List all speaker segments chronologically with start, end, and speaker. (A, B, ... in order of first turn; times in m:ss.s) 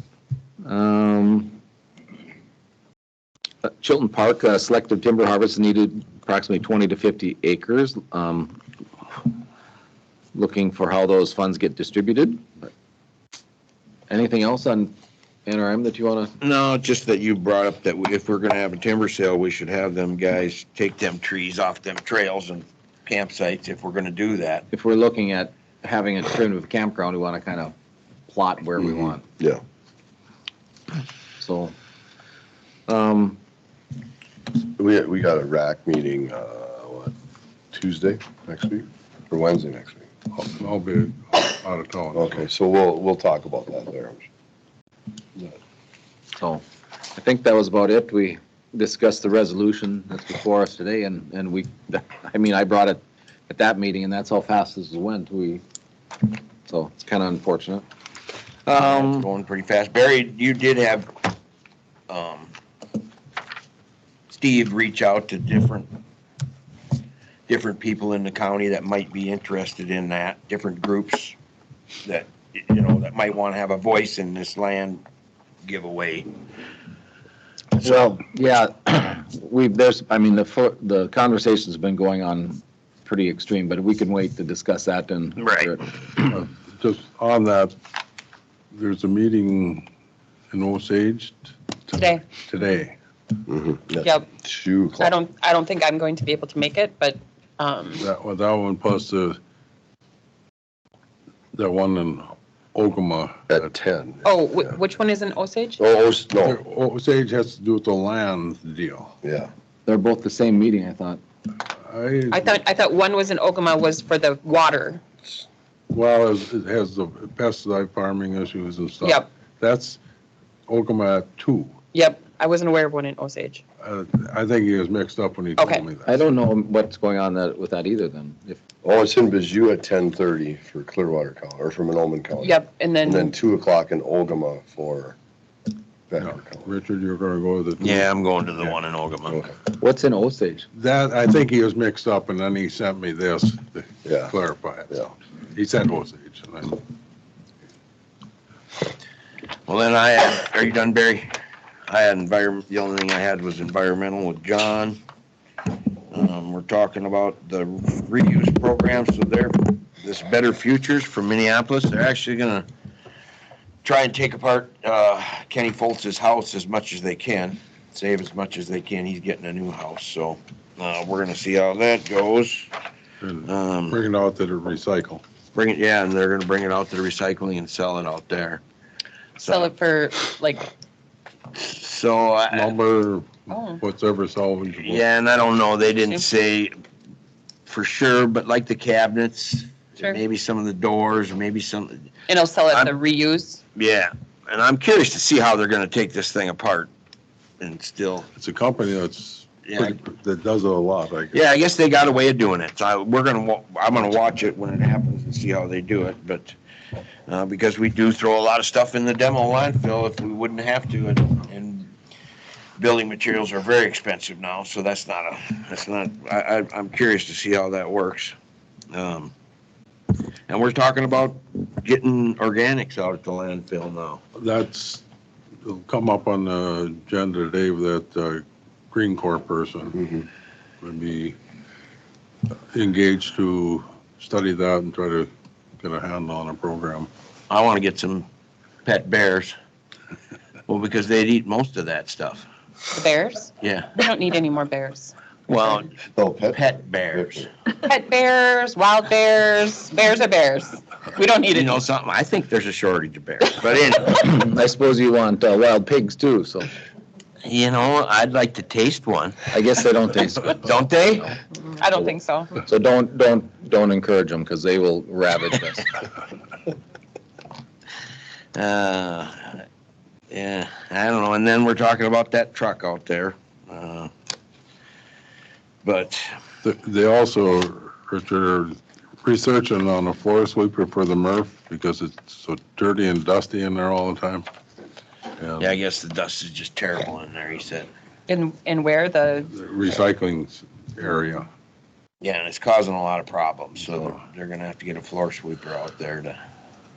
0:00.7-0:01.6 A
0:03.6-0:08.6 A
0:10.3-0:12.7 A
0:14.1-0:14.9 A
0:15.5-0:16.3 A
0:16.4-0:24.7 B
0:24.7-0:27.7 A
0:28.3-0:29.2 A
0:31.4-0:31.7 A
0:32.9-0:33.4 A
0:34.6-0:37.1 C
0:37.7-0:40.1 C
0:40.3-0:42.5 D
0:42.2-0:44.2 C
0:46.4-0:46.6 A
0:47.2-0:55.6 A
0:56.6-0:57.8 A
0:58.7-0:59.3 A
0:58.7-1:01.1 B
1:02.1-1:02.5 B
1:04.3-1:05.9 B
1:07.5-1:11.4 B
1:12.0-1:15.0 B
1:15.6-1:16.3 B
1:17.8-1:25.9 A
1:25.4-1:25.7 B
1:26.3-1:27.8 D
1:28.7-1:29.9 D
1:30.5-1:33.0 D
1:32.0-1:32.2 E
1:33.5-1:35.1 C
1:35.0-1:38.0 E
1:38.0-1:39.4 D
1:41.5-1:43.6 D
1:43.5-1:44.2 C
1:44.2-1:45.8 E
1:45.8-1:46.6 C
1:46.4-1:49.2 D
1:49.2-1:49.5 C
1:49.9-1:51.2 A
1:51.8-1:52.6 D
1:52.3-1:55.0 E
1:55.9-2:00.0 D
1:59.0-1:59.3 E
2:00.7-2:01.7 D
2:01.9-2:03.6 E
2:03.8-2:06.2 D
2:05.6-2:05.8 E
2:06.1-2:08.6 A
2:08.8-2:15.2 C
2:12.4-2:13.3 E
2:16.1-2:16.6 C
2:16.2-2:18.1 D
2:17.8-2:19.4 B
2:19.8-2:20.7 A
2:20.7-2:26.8 D
2:24.0-2:24.3 C
2:29.7-2:31.3 B
2:31.9-2:35.0 B
2:36.1-2:42.7 B
2:43.8-2:52.7 B
2:53.2-2:55.2 D
2:53.4-2:54.0 B
2:55.6-2:58.6 B
2:59.4-2:59.7 B
2:59.5-3:00.7 E
3:01.5-3:02.8 B
3:02.5-3:05.0 D
3:03.5-3:03.8 E
3:04.8-3:06.7 B
3:07.7-3:12.9 B
3:12.3-3:13.6 E
3:13.8-3:16.9 B
3:17.6-3:18.3 B
3:18.4-3:21.4 D
3:19.7-3:20.0 B
3:21.3-3:26.6 B
3:27.3-3:31.9 B
3:32.8-3:38.4 B
3:38.9-3:39.3 B
3:40.5-3:44.2 B
3:44.4-3:45.0 D
3:45.6-3:50.0 D
3:50.0-3:50.3 C
3:50.8-3:51.4 D
3:52.7-3:57.1 D
3:57.5-3:58.3 B
3:58.8-3:59.6 B
4:00.7-4:02.5 B
4:02.9-4:05.1 E
4:03.6-4:04.0 B
4:05.5-4:05.9 B
4:06.0-4:07.5 C
4:06.5-4:07.5 B
4:07.9-4:11.8 E
4:11.5-4:14.3 B
4:14.0-4:16.7 A
4:17.4-4:19.5 B
4:19.5-4:21.4 A
4:20.5-4:21.4 B
4:21.7-4:22.5 E
4:21.9-4:26.0 A
4:28.6-4:29.6 B
4:30.3-4:34.1 B
4:35.8-4:36.3 B
4:36.6-4:44.5 D
4:45.4-4:45.8 D
4:45.6-4:47.9 B
4:48.3-4:49.5 E
4:49.5-4:51.5 D
4:52.2-4:56.4 B